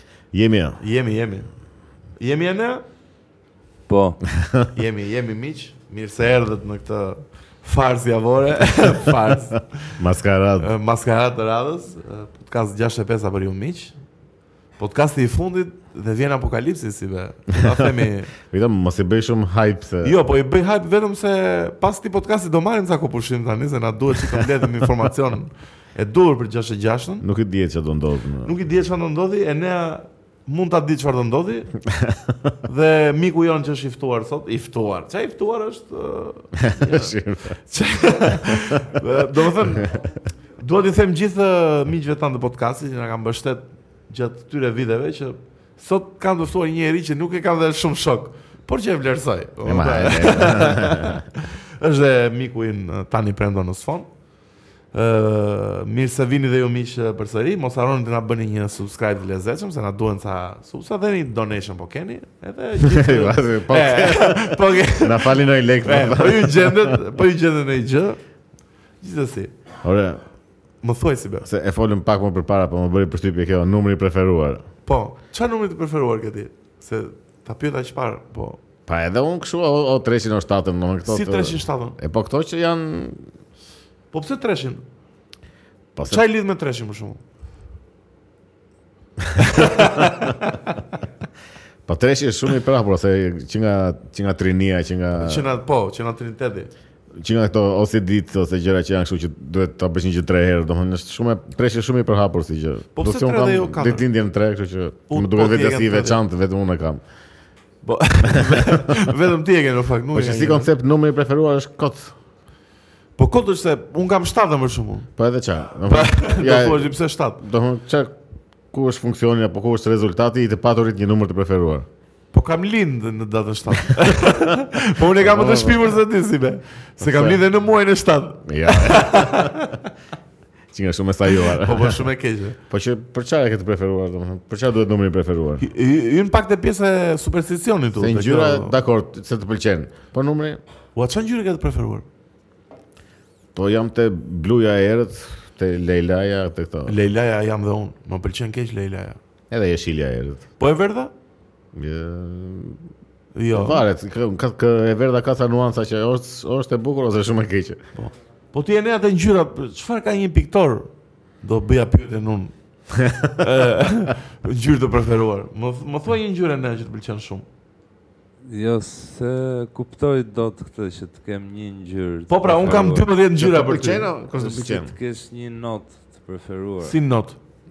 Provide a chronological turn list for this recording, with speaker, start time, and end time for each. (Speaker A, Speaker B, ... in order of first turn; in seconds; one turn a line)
Speaker A: 0.3-0.8
Speaker B: 0.8-1.5
Speaker B: 2.2-2.8
Speaker C: 3.9-4.2
Speaker A: 4.3-4.7
Speaker B: 4.7-9.9
Speaker A: 10.0-10.7
Speaker B: 10.6-13.9
Speaker B: 14.8-18.3
Speaker A: 18.3-20.1
Speaker B: 20.0-27.2
Speaker A: 27.2-28.5
Speaker B: 28.4-31.7
Speaker A: 31.9-32.5
Speaker B: 32.6-39.9
Speaker A: 36.5-37.5
Speaker A: 39.8-40.1
Speaker B: 40.6-54.1
Speaker A: 49.6-51.2
Speaker B: 54.9-68.2
Speaker A: 62.8-67.0
Speaker B: 69.0-69.5
Speaker A: 69.8-70.2
Speaker B: 70.8-71.5
Speaker A: 71.4-74.6
Speaker B: 74.8-78.6
Speaker A: 78.9-83.2
Speaker B: 81.0-82.0
Speaker B: 84.1-84.8
Speaker A: 86.0-86.2
Speaker B: 86.0-87.2
Speaker A: 89.2-90.2
Speaker B: 89.4-90.7
Speaker A: 91.9-95.5
Speaker B: 95.2-96.7
Speaker A: 97.1-107.0
Speaker B: 102.9-104.0
Speaker B: 105.1-106.2
Speaker B: 107.8-110.7
Speaker A: 108.4-109.0
Speaker A: 110.1-112.1
Speaker B: 113.2-115.1
Speaker A: 115.2-118.1
Speaker B: 115.8-117.4
Speaker A: 118.7-121.9
Speaker B: 122.3-129.9
Speaker A: 124.0-124.3
Speaker A: 125.2-125.9
Speaker A: 127.0-127.4
Speaker A: 128.4-129.6
Speaker A: 130.7-132.0
Speaker B: 131.4-132.6
Speaker A: 132.7-135.6
Speaker B: 135.6-138.7
Speaker A: 137.9-140.6
Speaker B: 140.9-142.0
Speaker A: 143.5-146.9
Speaker B: 146.8-149.2
Speaker A: 149.5-150.4
Speaker B: 150.6-151.1
Speaker A: 151.7-152.8
Speaker B: 153.3-153.8
Speaker A: 153.5-157.8
Speaker B: 157.9-160.9
Speaker B: 161.4-162.5
Speaker A: 162.9-163.4
Speaker B: 163.4-167.4
Speaker C: 168.4-173.1
Speaker B: 172.3-174.1
Speaker A: 173.4-174.9
Speaker C: 174.3-176.9
Speaker B: 176.8-177.4